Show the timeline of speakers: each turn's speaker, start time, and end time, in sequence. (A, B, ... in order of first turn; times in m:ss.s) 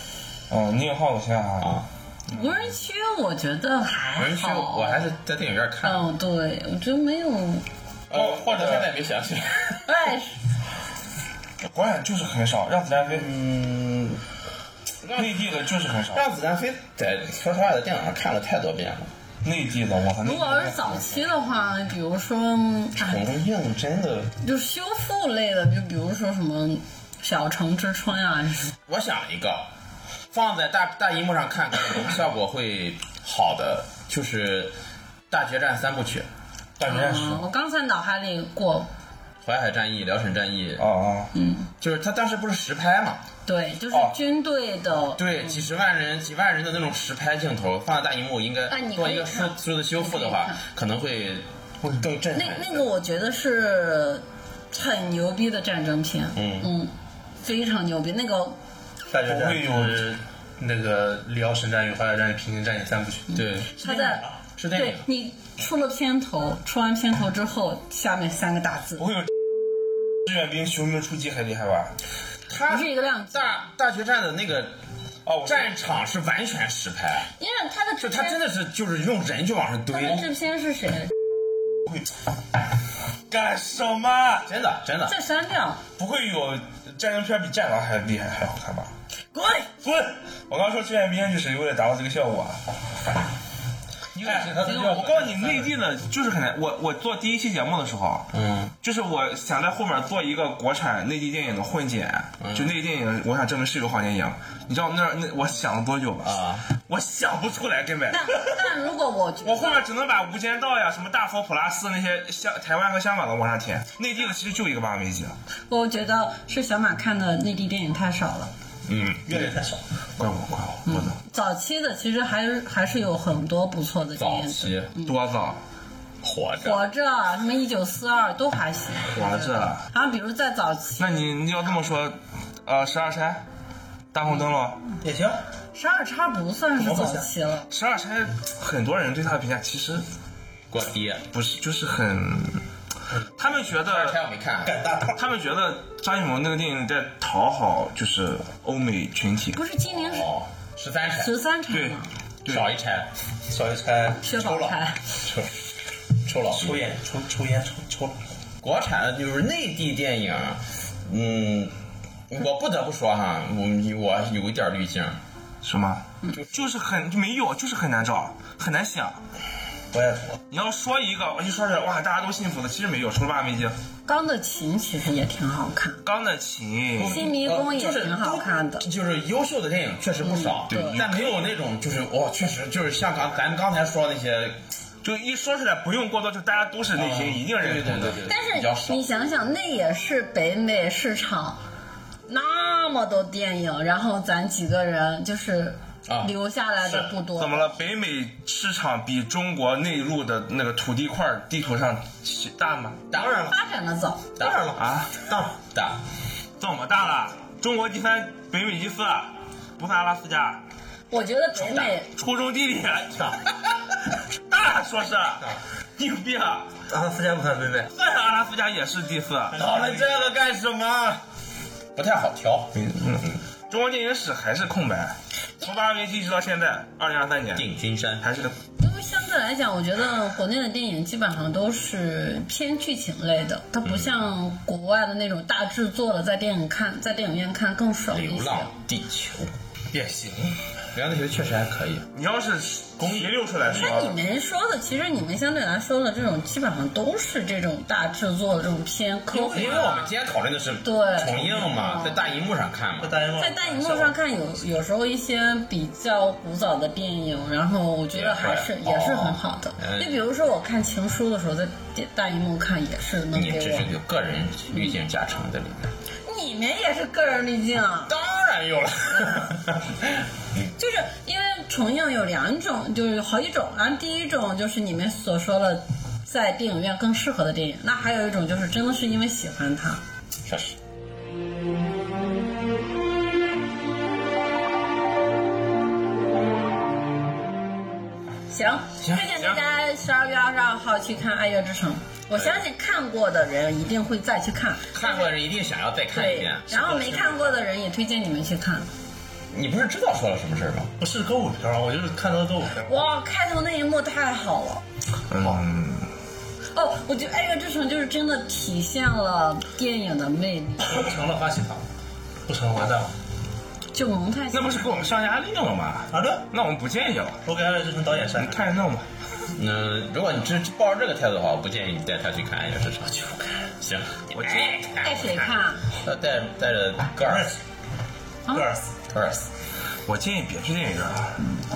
0:00.5-0:02.6 A
0:01.6-0:01.8 B
0:02.3-0:05.1 C
0:04.2-0:06.1 B
0:05.8-0:07.6 C
0:08.1-0:09.9 B
0:08.1-0:08.9 A
0:09.8-0:10.4 C
0:11.6-0:13.3 A
0:13.0-0:14.2 B
0:15.0-0:19.1 B
0:15.2-0:16.2 A
0:19.4-0:21.3 A
0:20.2-0:23.2 C
0:23.0-0:24.3 B
0:24.4-0:28.7 C
0:28.9-0:29.7 B
0:30.3-0:34.7 B
0:35.3-0:36.3 B
0:36.8-0:37.4 A
0:36.8-0:38.9 C
0:39.4-0:40.8 B
0:40.8-0:41.3 A
0:41.3-0:41.7 C
0:41.8-0:43.2 B
0:43.4-0:45.6 C
0:43.9-0:44.2 A
0:45.2-0:51.5 B
0:48.7-0:50.6 C
0:52.0-0:52.9 B
0:52.3-0:56.9 C
0:56.3-0:56.7 B
0:57.4-0:58.6 C
0:59.1-1:04.3 D
0:59.3-1:00.0 A
1:03.3-1:09.1 C
1:03.3-1:04.0 B
1:04.6-1:05.0 B
1:09.0-1:09.3 A
1:10.2-1:11.9 A
1:12.5-1:14.8 B
1:12.6-1:13.6 C
1:15.2-1:15.7 A
1:15.4-1:17.3 B
1:17.4-1:18.4 C
1:18.0-1:20.2 B
1:19.9-1:21.1 C
1:23.3-1:24.5 A
1:24.4-1:25.2 B
1:25.0-1:25.8 C
1:26.0-1:28.9 A
1:29.3-1:29.7 C
1:29.8-1:32.6 A
1:34.2-1:35.5 B
1:34.2-1:48.7 A
1:38.3-1:38.7 B
1:42.4-1:42.7 B
1:46.2-1:46.6 B
1:48.1-1:49.8 C
1:49.4-1:55.4 A
1:55.7-1:58.5 C
1:58.8-1:59.2 B
1:59.3-1:59.8 D
2:00.2-2:01.2 A
2:00.8-2:05.1 C
2:04.2-2:04.9 B
2:05.0-2:05.6 A
2:06.2-2:06.8 B
2:06.6-2:11.3 C
2:09.1-2:09.8 A
2:11.0-2:13.4 A
2:14.1-2:14.8 A
2:15.0-2:15.4 D
2:15.7-2:17.7 C
2:16.8-2:17.2 D
2:17.7-2:20.0 A
2:20.7-2:21.3 B
2:21.3-2:22.6 A
2:23.4-2:24.2 A
2:23.8-2:24.7 B
2:24.6-2:25.1 D
2:25.1-2:29.6 A
2:29.5-2:30.3 C
2:29.9-2:31.3 B
2:31.2-2:32.1 C
2:31.7-2:32.7 A
2:32.4-2:33.1 B
2:33.4-2:34.7 D
2:34.2-2:35.0 C
2:34.4-2:35.5 B
2:36.2-2:36.8 B
2:36.5-2:38.2 D
2:38.6-2:41.7 B
2:42.3-2:45.2 B
2:45.6-2:49.2 A
2:49.9-2:50.4 D
2:50.5-2:53.7 A
2:54.0-2:56.0 C
2:56.0-2:57.3 A
2:57.0-3:04.6 B
2:57.0-2:58.9 C
3:00.2-3:01.0 C
3:00.7-3:01.4 A
3:05.0-3:08.3 A
3:06.9-3:09.0 B
3:08.3-3:11.6 C
3:12.3-3:17.7 C
3:16.1-3:16.3 B
3:16.8-3:23.2 A
3:23.1-3:23.6 B
3:23.5-3:24.6 C
3:24.4-3:26.0 B
3:24.6-3:25.2 A
3:26.6-3:30.6 A
3:31.1-3:32.1 C
3:32.1-3:33.6 A
3:34.2-3:36.8 A
3:36.9-3:37.9 D
3:37.9-3:40.1 A
3:39.5-3:41.2 B
3:41.9-3:42.7 B
3:42.7-3:47.7 A
3:47.5-3:48.2 B
3:48.2-3:48.5 A
3:48.8-3:58.7 C
3:53.8-3:54.2 B
3:58.1-3:59.5 B
3:59.9-4:00.6 D
4:00.9-4:02.1 B
4:02.1-4:04.2 A
4:03.0-4:03.4 B
4:03.7-4:10.1 C
4:09.3-4:10.0 D
4:09.5-4:13.2 B
4:10.8-4:12.2 C
4:11.2-4:11.7 D
4:13.0-4:14.1 D
4:13.4-4:23.9 C
4:18.1-4:20.2 B
4:23.3-4:25.9 B
4:26.2-4:28.1 C
4:28.0-4:30.2 B
4:29.1-4:29.5 C
4:30.8-4:40.0 C
4:40.4-4:40.8 B
4:48.5-4:55.3 C
4:49.0-4:49.6 B
4:54.9-4:57.6 B
4:56.1-4:58.9 C
4:59.5-5:00.9 B
5:01.0-5:03.0 D
5:02.8-5:04.8 C
5:05.3-5:06.1 A
5:06.7-5:11.0 C
5:10.8-5:11.8 D
5:12.4-5:13.2 D
5:13.9-5:15.1 C
5:14.5-5:17.4 A
5:16.1-5:16.5 D
5:17.4-5:18.8 D
5:18.4-5:19.0 A
5:19.5-5:23.1 B
5:23.0-5:23.7 D
5:23.8-5:27.5 B
5:24.3-5:24.8 A
5:25.0-5:25.8 C
5:27.2-5:27.6 D
5:28.5-5:28.9 D
5:29.1-5:29.4 B
5:30.0-5:31.5 A